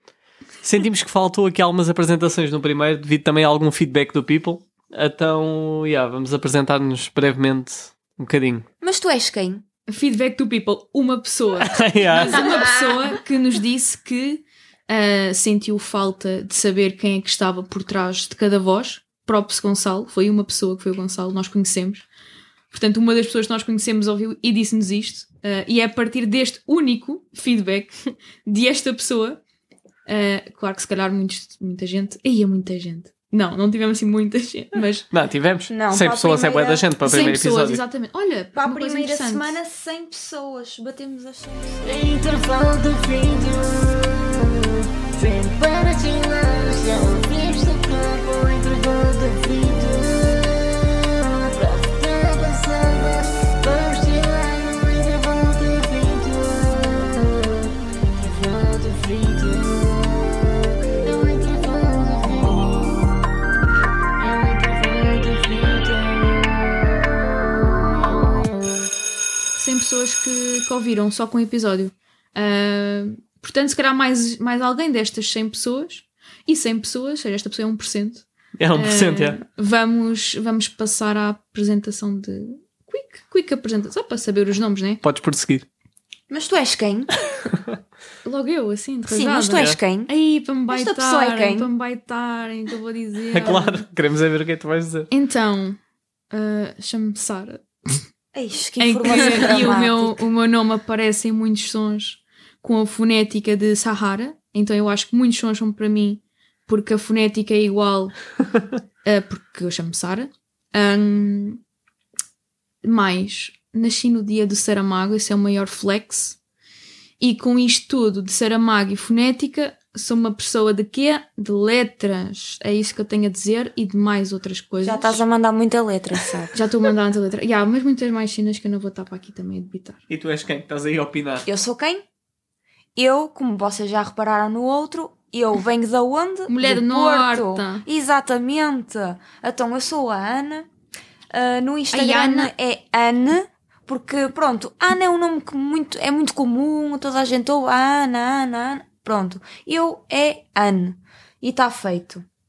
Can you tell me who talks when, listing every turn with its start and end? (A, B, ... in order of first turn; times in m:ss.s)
0:00.6-0:08.6 A
0:08.8-0:09.6 B
0:09.9-0:22.1 C
0:11.7-0:12.5 A
0:12.6-0:12.9 B
0:22.7-0:29.4 C
0:30.1-0:35.1 C
0:35.1-0:37.8 A
0:35.7-0:37.0 B
0:37.0-0:39.6 C
0:38.5-0:42.2 B
0:41.9-0:43.8 D
0:45.4-0:50.2 D
0:51.6-0:56.6 D
0:58.3-0:59.6 D
1:01.4-1:02.3 D
1:04.5-1:05.8 D
1:09.6-1:25.0 C
1:18.6-1:19.4 A
1:25.0-1:25.7 A
1:26.3-1:27.2 B
1:28.2-1:33.8 C
1:29.1-1:30.1 B
1:29.5-1:29.8 A
1:30.7-1:31.7 B
1:33.3-1:35.1 A
1:35.1-1:35.8 C
1:36.3-1:38.0 C
1:38.3-1:40.2 B
1:38.8-1:48.1 C
1:49.0-1:51.6 C
1:52.8-1:56.4 C
1:57.2-2:05.2 C
2:04.8-2:06.6 B
2:06.5-2:10.0 C
2:10.1-2:11.5 A
2:11.5-2:12.0 B
2:13.0-2:20.7 B
2:16.5-2:17.9 C
2:21.3-2:32.2 B
2:21.9-2:22.5 C